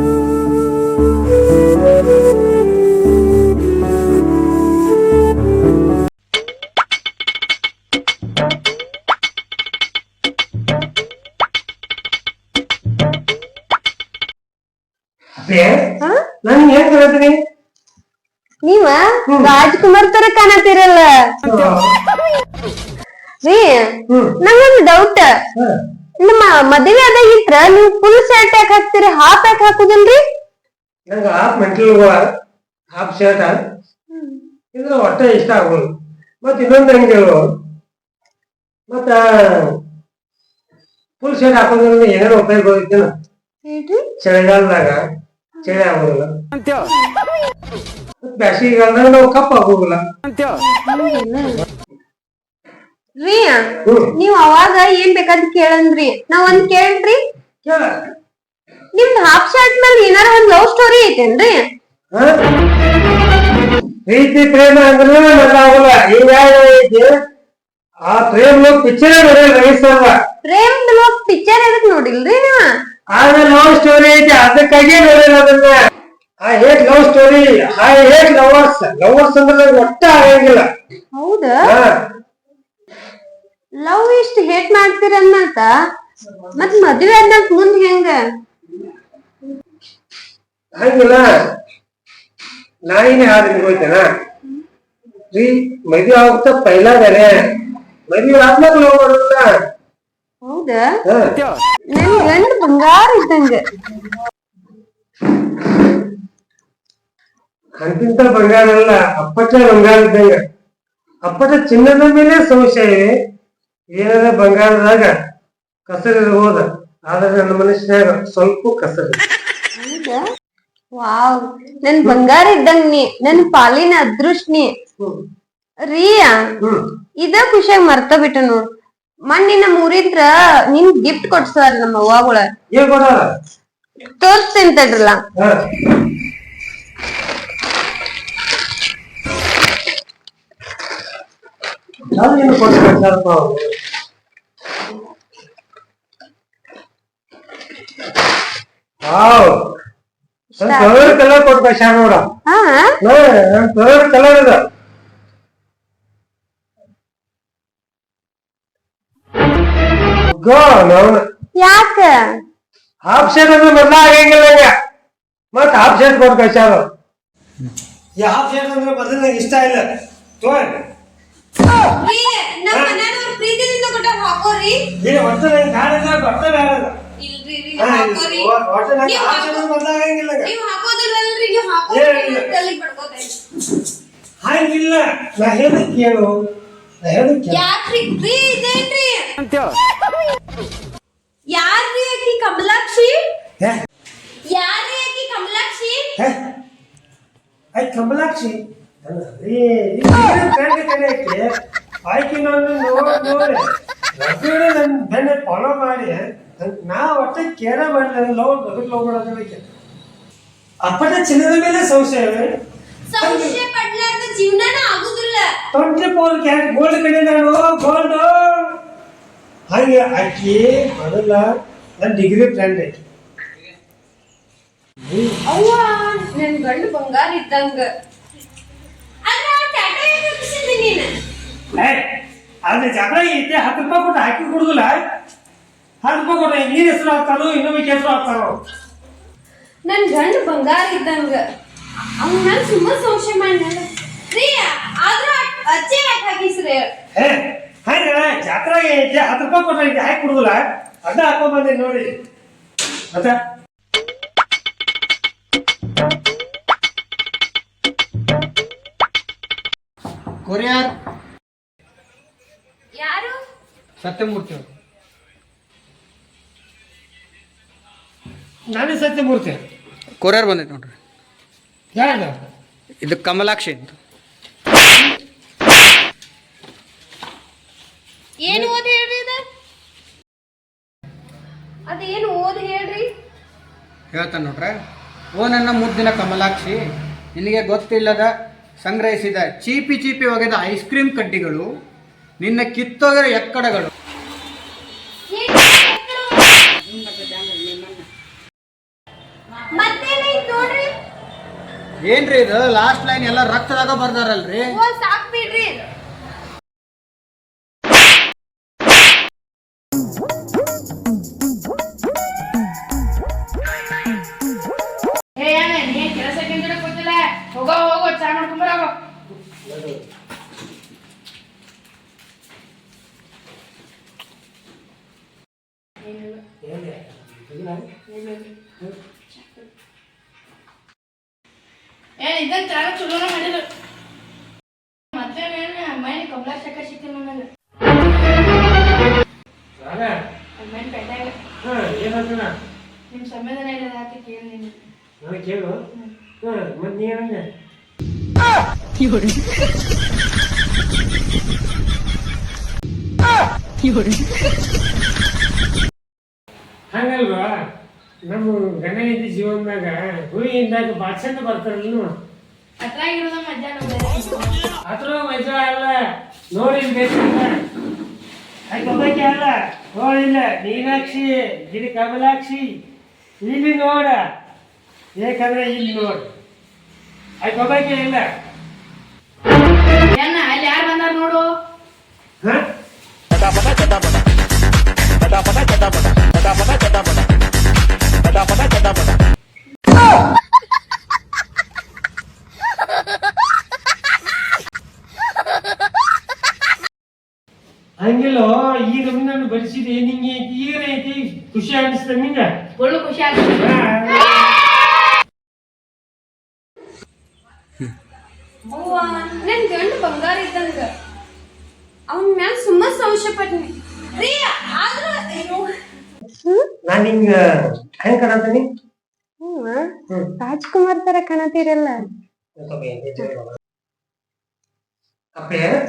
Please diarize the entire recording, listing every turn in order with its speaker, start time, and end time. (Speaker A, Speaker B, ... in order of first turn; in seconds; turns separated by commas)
Speaker A: 15.4-15.8, Speaker A: 16.4-17.4, Speaker B: 18.6-21.2, Speaker A: 19.3-19.5, Speaker A: 21.4-21.9, Speaker B: 23.4-25.3, Speaker A: 24.1-24.3, Speaker B: 26.2-30.2, Speaker A: 31.1-32.2, Speaker A: 32.9-33.5, Speaker B: 34.1-34.4, Speaker A: 34.7-35.9, Speaker A: 36.4-37.4, Speaker A: 38.9-39.7, Speaker A: 41.2-43.1, Speaker B: 43.6-44.1, Speaker A: 44.2-45.0, Speaker A: 45.6-46.3, Speaker A: 48.2-50.0, Speaker B: 50.6-51.6, Speaker B: 53.2-57.2, Speaker B: 59.0-61.6, Speaker A: 64.1-67.1, Speaker A: 68.0-70.2, Speaker B: 70.4-72.7, Speaker A: 73.1-75.8, Speaker A: 76.4-80.7, Speaker B: 81.1-81.6, Speaker A: 81.7-81.9, Speaker B: 83.8-85.7, Speaker B: 86.5-88.2, Speaker A: 90.7-91.3, Speaker A: 92.9-94.0, Speaker A: 95.3-97.3, Speaker A: 98.1-99.5, Speaker B: 100.4-100.9, Speaker A: 101.1-101.4, Speaker B: 101.9-103.6, Speaker A: 107.8-110.4, Speaker A: 111.2-113.1, Speaker A: 114.0-115.1, Speaker A: 115.9-119.2, Speaker B: 119.8-120.2, Speaker B: 121.0-124.7, Speaker B: 125.9-126.4, Speaker B: 127.2-128.7, Speaker B: 129.3-132.5, Speaker A: 132.7-133.3, Speaker B: 134.2-135.2, Speaker A: 142.1-143.7, Speaker A: 149.0-149.6, Speaker B: 150.5-151.2, Speaker A: 150.6-152.3, Speaker B: 152.5-153.0, Speaker A: 153.0-154.6, Speaker A: 160.3-161.2, Speaker B: 161.6-162.3, Speaker A: 163.0-164.7, Speaker A: 165.5-166.8, Speaker A: 168.2-169.8, Speaker A: 170.4-170.8, Speaker B: 171.9-174.8, Speaker A: 172.7-172.9, Speaker A: 175.0-176.9, Speaker B: 177.2-178.5, Speaker A: 177.8-180.5, Speaker B: 179.0-179.7, Speaker B: 180.4-183.4, Speaker A: 181.9-182.5, Speaker A: 184.4-186.3, Speaker A: 187.0-187.6, Speaker B: 187.5-189.3, Speaker B: 191.5-193.2, Speaker B: 194.4-196.2, Speaker A: 197.7-201.5, Speaker A: 202.0-203.6, Speaker A: 204.2-209.6, Speaker A: 210.8-212.5, Speaker B: 213.1-215.5, Speaker A: 213.2-213.6, Speaker A: 215.7-218.7, Speaker A: 219.7-221.4, Speaker A: 222.0-223.0, Speaker A: 225.0-225.4, Speaker B: 225.4-227.9, Speaker B: 229.2-231.1, Speaker A: 231.7-232.0, Speaker A: 232.7-234.9, Speaker A: 236.0-238.6, Speaker B: 239.9-241.4, Speaker B: 242.2-246.9, Speaker A: 247.1-252.1, Speaker C: 260.4-260.9, Speaker B: 263.0-263.4, Speaker C: 264.0-264.7, Speaker A: 268.7-269.6, Speaker C: 270.2-270.9, Speaker A: 271.9-272.3, Speaker B: 271.9-272.2, Speaker C: 273.0-273.9, Speaker B: 278.4-279.4, Speaker B: 281.9-283.1, Speaker C: 284.1-284.8, Speaker C: 285.3-286.8, Speaker C: 287.3-291.7, Speaker C: 292.4-293.9, Speaker B: 295.3-296.6, Speaker B: 299.7-300.9, Speaker C: 302.1-304.7, Speaker B: 304.7-305.8, Speaker D: 315.4-318.9, Speaker A: 319.6-320.0, Speaker D: 326.0-326.4, Speaker A: 326.6-327.9, Speaker D: 328.1-328.5, Speaker D: 332.2-333.6, Speaker D: 335.1-337.4, Speaker A: 339.8-340.1, Speaker D: 340.6-341.3, Speaker A: 341.6-342.5, Speaker D: 343.1-344.8, Speaker A: 345.2-345.8, Speaker A: 346.4-347.5, Speaker D: 349.0-349.6, Speaker D: 353.8-354.3, Speaker A: 356.9-357.5, Speaker A: 358.3-362.1, Speaker D: 362.8-364.6, Speaker A: 364.9-365.9, Speaker A: 366.5-367.5, Speaker A: 368.7-372.7, Speaker A: 373.4-374.2, Speaker A: 375.2-376.3, Speaker A: 377.4-378.3, Speaker D: 380.1-381.5, Speaker A: 398.0-402.5, Speaker D: 402.8-403.7, Speaker A: 403.6-404.2, Speaker B: 408.7-410.9, Speaker B: 412.1-415.7, Speaker B: 416.4-416.7, Speaker A: 416.8-418.6, Speaker B: 419.4-422.1, Speaker A: 422.6-423.6, Speaker A: 425.4-425.7